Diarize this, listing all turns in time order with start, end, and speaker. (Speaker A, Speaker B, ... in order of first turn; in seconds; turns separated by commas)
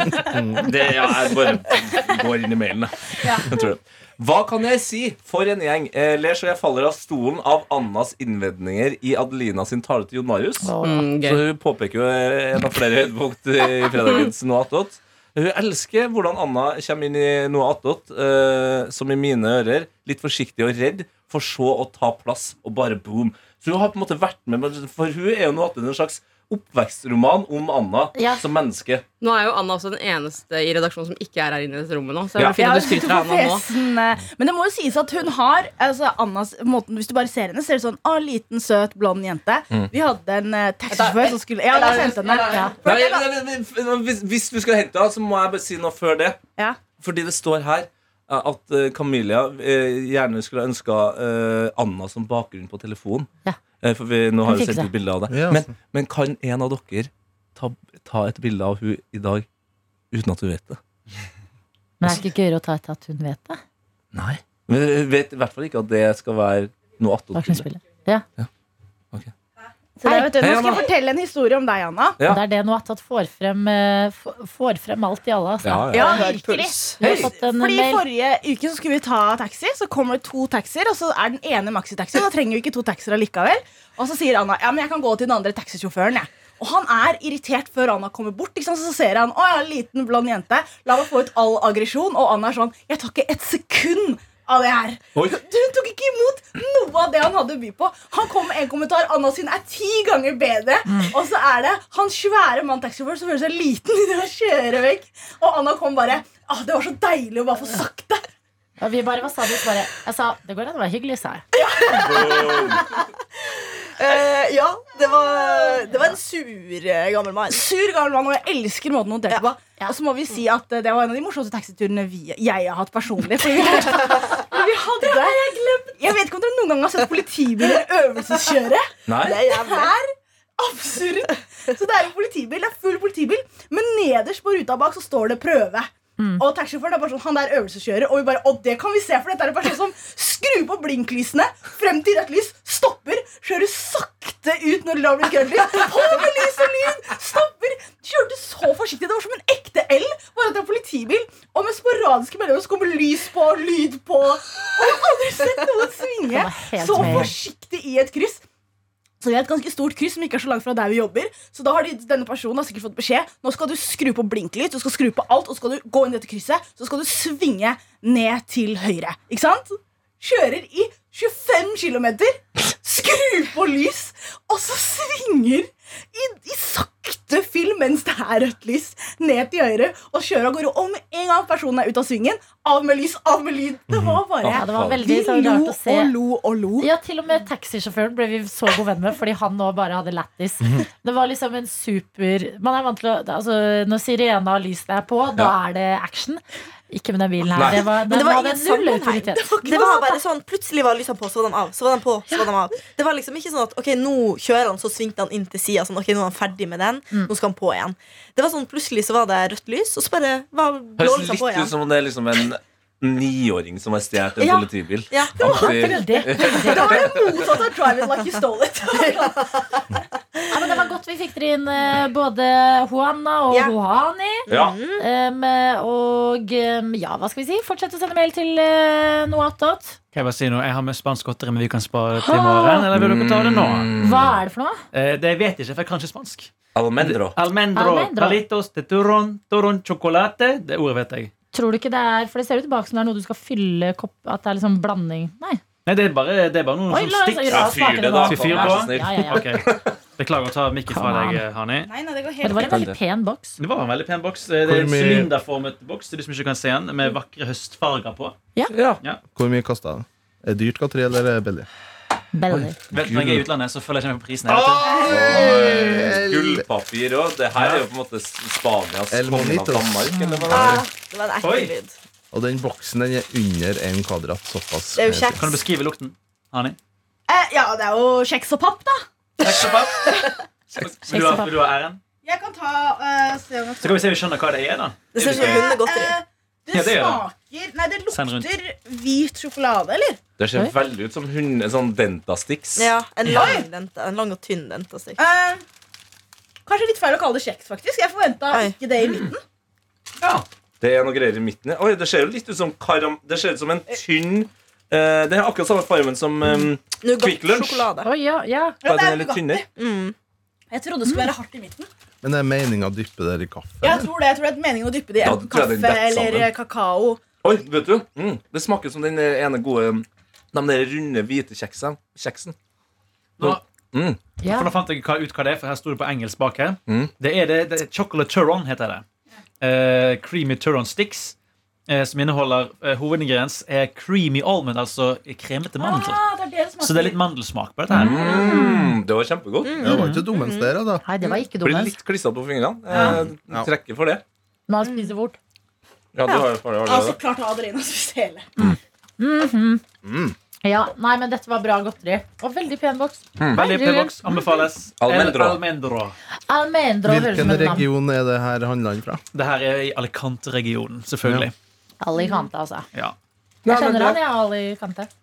Speaker A: 0.2-0.6, Speaker B: 0.6-29.0, Speaker C: 10.6-11.1, Speaker D: 10.8-11.4, Speaker C: 28.1-28.4, Speaker D: 29.2-33.7, Speaker E: 32.5-43.3, Speaker D: 40.9-42.9, Speaker B: 42.8-53.3, Speaker E: 46.6-46.8, Speaker B: 53.8-59.5, Speaker C: 54.4-54.9, Speaker A: 55.3-55.7, Speaker B: 60.1-60.8, Speaker C: 62.0-63.6, Speaker B: 64.1-67.7, Speaker C: 67.3-68.2, Speaker E: 70.0-72.2, Speaker C: 70.0-70.3, Speaker B: 70.3-70.9, Speaker C: 72.2-78.0, Speaker B: 75.6-76.2, Speaker E: 75.9-108.2, Speaker D: 76.1-76.9, Speaker B: 77.0-77.3, Speaker C: 100.9-101.1, Speaker C: 108.8-111.5, Speaker E: 111.5-112.8, Speaker B: 111.9-112.9, Speaker F: 114.0-117.6, Speaker E: 114.0-116.2, Speaker E: 117.5-130.1, Speaker B: 129.1-129.4, Speaker F: 129.3-129.9, Speaker E: 130.6-158.4, Speaker C: 136.2-136.4, Speaker C: 156.3-157.3, Speaker E: 159.2-186.9, Speaker A: 183.9-184.2, Speaker B: 184.4-185.1, Speaker C: 184.5-186.1, Speaker C: 186.8-200.0, Speaker B: 197.5-197.9, Speaker F: 198.0-211.7, Speaker E: 199.3-200.2, Speaker B: 211.0-217.2, Speaker F: 214.4-215.5, Speaker C: 215.3-217.2, Speaker E: 215.5-219.4, Speaker C: 220.5-230.0, Speaker F: 224.5-225.0, Speaker B: 224.5-224.8, Speaker G: 230.1-233.9, Speaker C: 232.1-232.9, Speaker B: 232.9-234.4, Speaker C: 234.0-234.8, Speaker G: 234.9-241.3, Speaker B: 236.7-237.4, Speaker C: 237.7-238.4, Speaker C: 241.5-245.6, Speaker G: 245.8-251.9, Speaker C: 246.9-249.4, Speaker B: 247.5-250.0, Speaker C: 250.9-251.4, Speaker E: 251.9-252.8, Speaker C: 252.4-253.6, Speaker B: 252.6-253.0, Speaker G: 253.6-258.4, Speaker A: 254.6-255.3, Speaker B: 258.7-259.0, Speaker A: 259.3-261.7, Speaker C: 262.3-262.8, Speaker B: 262.5-263.4, Speaker G: 262.9-265.0, Speaker A: 263.1-263.4, Speaker A: 264.5-266.6, Speaker B: 264.8-270.8, Speaker E: 264.9-265.6, Speaker G: 267.5-267.9, Speaker A: 269.1-270.8, Speaker F: 270.5-271.9, Speaker G: 271.4-271.7, Speaker A: 272.3-275.5, Speaker F: 274.9-275.6, Speaker G: 275.3-276.8, Speaker E: 277.3-279.0, Speaker G: 279.4-280.2, Speaker G: 280.7-282.0, Speaker C: 281.1-281.6, Speaker E: 282.2-284.1, Speaker G: 283.8-285.8, Speaker F: 285.1-286.1, Speaker E: 285.2-290.2, Speaker G: 286.7-287.2, Speaker G: 288.1-288.5, Speaker B: 290.4-292.9, Speaker F: 292.8-295.2, Speaker E: 293.3-293.7, Speaker E: 295.2-295.6, Speaker E: 296.6-299.4, Speaker F: 298.5-298.8, Speaker B: 300.8-307.9, Speaker F: 307.0-308.1, Speaker C: 308.0-308.8, Speaker E: 308.8-309.6, Speaker B: 308.8-309.6, Speaker F: 309.7-310.1, Speaker E: 310.7-311.9, Speaker A: 312.2-314.1, Speaker E: 313.8-317.2, Speaker B: 315.2-316.5, Speaker B: 317.4-322.5, Speaker B: 323.4-324.2, Speaker C: 324.4-324.7, Speaker G: 324.4-329.0, Speaker B: 326.9-327.1, Speaker G: 329.6-331.3, Speaker G: 331.9-336.2, Speaker E: 335.8-337.2, Speaker G: 336.8-338.6, Speaker B: 337.9-339.8, Speaker C: 338.0-338.9, Speaker F: 339.6-341.4, Speaker A: 339.8-341.0, Speaker G: 339.8-340.3, Speaker C: 341.0-342.0, Speaker B: 341.6-344.2, Speaker C: 344.7-345.4, Speaker F: 344.8-345.1, Speaker B: 346.1-347.2, Speaker E: 346.8-348.5, Speaker C: 349.2-349.8, Speaker B: 350.0-350.3, Speaker C: 350.6-354.6, Speaker B: 353.4-353.6, Speaker G: 353.5-356.1, Speaker B: 355.0-355.6, Speaker C: 356.5-357.9, Speaker A: 357.0-359.2, Speaker G: 359.3-361.5, Speaker A: 361.2-361.5, Speaker C: 362.0-362.9, Speaker B: 363.6-364.2, Speaker C: 363.7-365.1